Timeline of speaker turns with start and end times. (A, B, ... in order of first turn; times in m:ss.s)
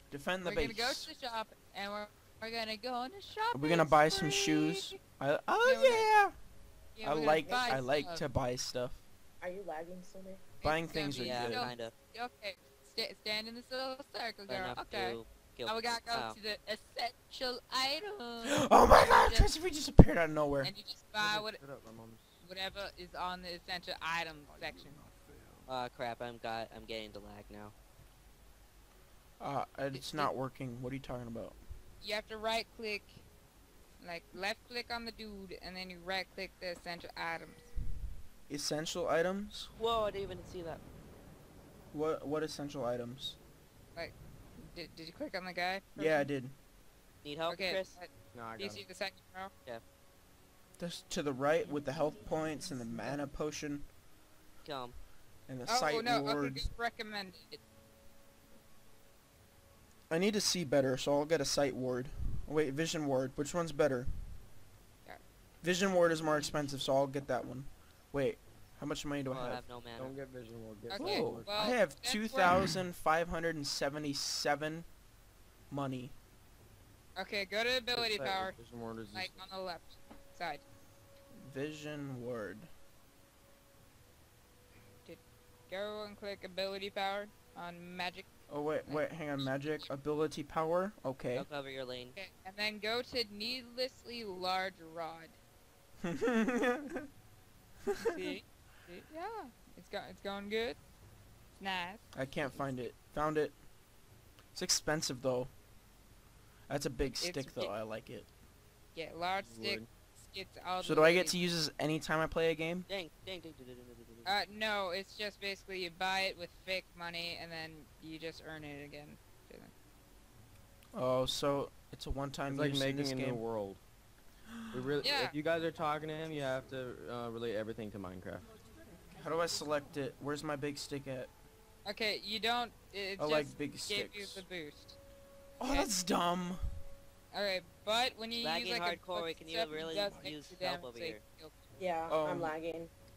0:00.1-0:01.1 A
0:00.4-0:05.0 B
0:03.5-0:06.3 A
0:05.6-0:06.1 B
0:07.0-0:08.2 B
0:07.0-0:09.0 A
0:07.4-0:07.8 C
0:09.4-0:10.4 C
0:10.6-0:19.5 B
0:10.6-0:11.7 A
0:11.2-0:11.9 D
0:14.5-0:16.4 D
0:18.4-0:20.7 A
0:20.6-0:21.6 B
0:21.2-0:22.4 E
0:22.4-0:25.0 B
0:25.7-0:27.7 D
0:29.4-0:31.6 A
0:29.9-0:30.3 B
0:32.0-0:33.3 B
0:34.0-0:37.7 B
0:38.5-0:39.7 A
0:39.8-0:40.8 D
0:41.9-0:43.4 A
0:44.0-0:46.3 B
0:46.0-0:46.6 A
0:47.2-0:48.0 D
0:47.5-0:49.5 B
0:48.3-0:48.8 E
0:50.8-0:53.9 A
0:54.6-0:55.0 D
0:55.5-0:56.7 A
0:55.7-0:57.6 B
1:00.1-1:04.1 A
1:05.6-1:09.6 A
1:09.3-1:10.2 D
1:10.0-1:11.5 E
1:10.9-1:12.6 B
1:11.0-1:14.9 A
1:15.7-1:16.2 A
1:17.2-1:18.6 B
1:17.9-1:19.4 E
1:19.1-1:20.6 B
1:21.4-1:22.7 A
1:25.0-1:28.3 B
1:28.5-1:31.5 A
1:28.8-1:29.9 B
1:31.3-1:32.2 D
1:32.2-1:35.4 B
1:36.0-1:37.1 A
1:37.9-1:38.3 A
1:38.0-1:40.8 B
1:41.6-1:42.6 B
1:42.1-1:43.6 A
1:44.5-1:45.5 A
1:46.7-1:48.3 A
1:47.0-1:47.7 B
1:48.9-1:51.4 B
1:49.4-1:49.9 E
1:50.8-1:52.9 A
1:52.9-1:54.3 D
1:54.3-1:59.7 B
2:01.0-2:03.4 A
2:02.5-2:03.8 E
2:04.5-2:04.9 A
2:04.7-2:08.5 E
2:05.0-2:05.4 B
2:09.1-2:11.3 A
2:11.8-2:15.0 B
2:13.2-2:14.4 A
2:15.6-2:16.6 A
2:15.6-2:15.9 B
2:17.3-2:21.6 B
2:18.3-2:21.2 D
2:21.8-2:22.9 C
2:22.1-2:22.6 A